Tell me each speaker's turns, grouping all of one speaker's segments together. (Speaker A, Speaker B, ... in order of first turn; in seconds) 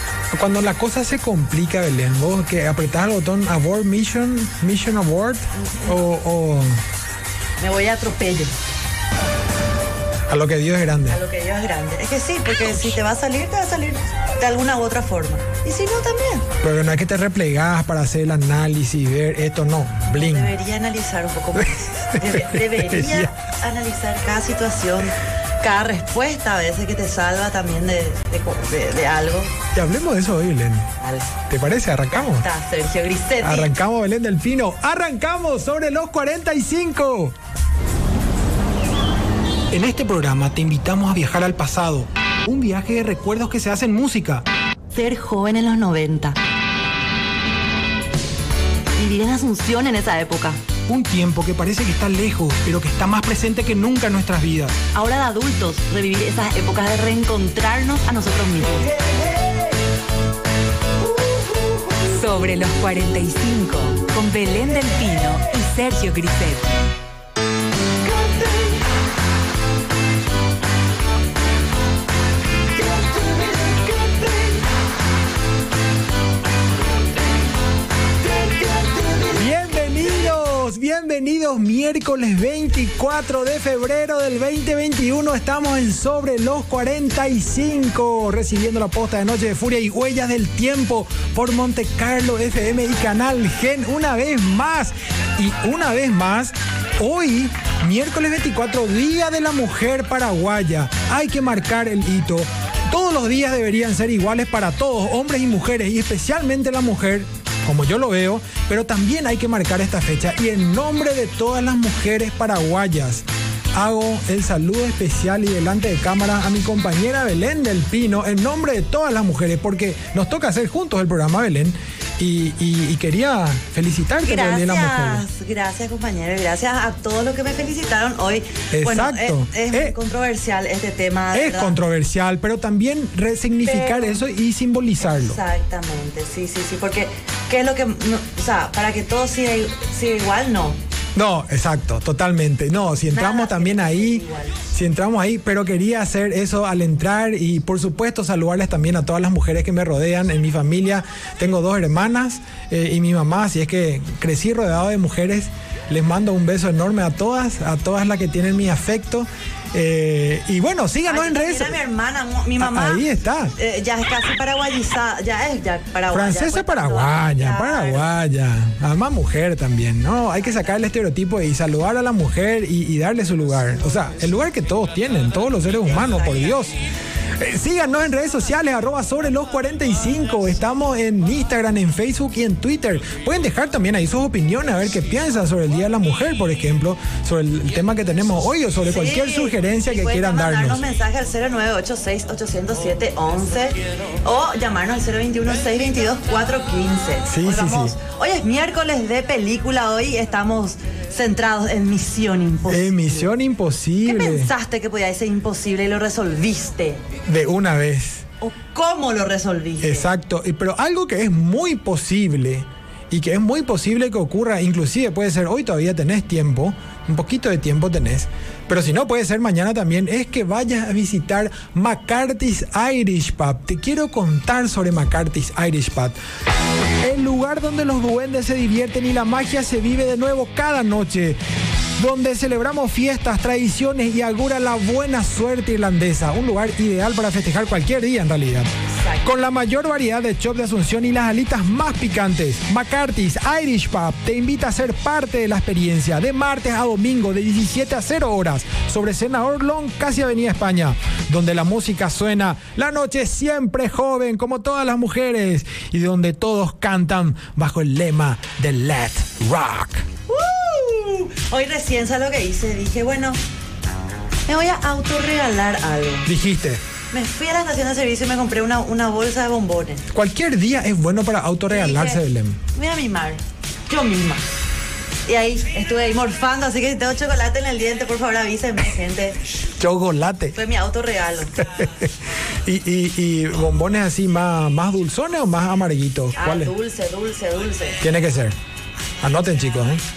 Speaker A: 0.3-6.8, 10.3-11.2, 16.6-20.5, 21.6-23.3, 29.7-30.9, 31.5-32.5, 33.4-37.4, 39.7-44.5, 50.9-54.8, 79.3-125.2, 128.7-129.9, 131.3-135.4, 141.2-161.8, 162.6-163.5, 166.1-176.8, 177.4-190.8, 197.3-198.0, 202.7-204.5, 207.2-208.3, 209.8-226.2, 227.0-231.4, 232.0-238.7, 239.2-260.1, 266.2-266.8, 270.1-272.6, 279.8-280.6, 281.6-282.1, 282.6-286.7, 288.0-288.6, 289.2-290.0
Speaker B: 5.5-6.0, 7.6-8.5, 11.1-16.5, 20.1-29.6, 31.0-31.3, 32.1-33.8, 44.9-46.4, 49.0-50.6, 54.9-59.0, 68.1-68.7, 72.9-74.6, 78.2-79.3, 124.2-131.8, 133.6-134.2, 135.0-140.8, 143.1-144.6, 161.1-163.0, 163.6-168.1, 170.4-170.7, 175.8-176.6, 188.8-203.3, 204.1-207.0, 208.4-210.1, 238.9-239.2, 260.3-263.4, 264.5-266.3, 267.1-270.1, 271.7-272.2, 272.7-274.5, 275.3-279.4, 280.6-281.6, 286.4-288.0
Speaker C: 62.1-66.8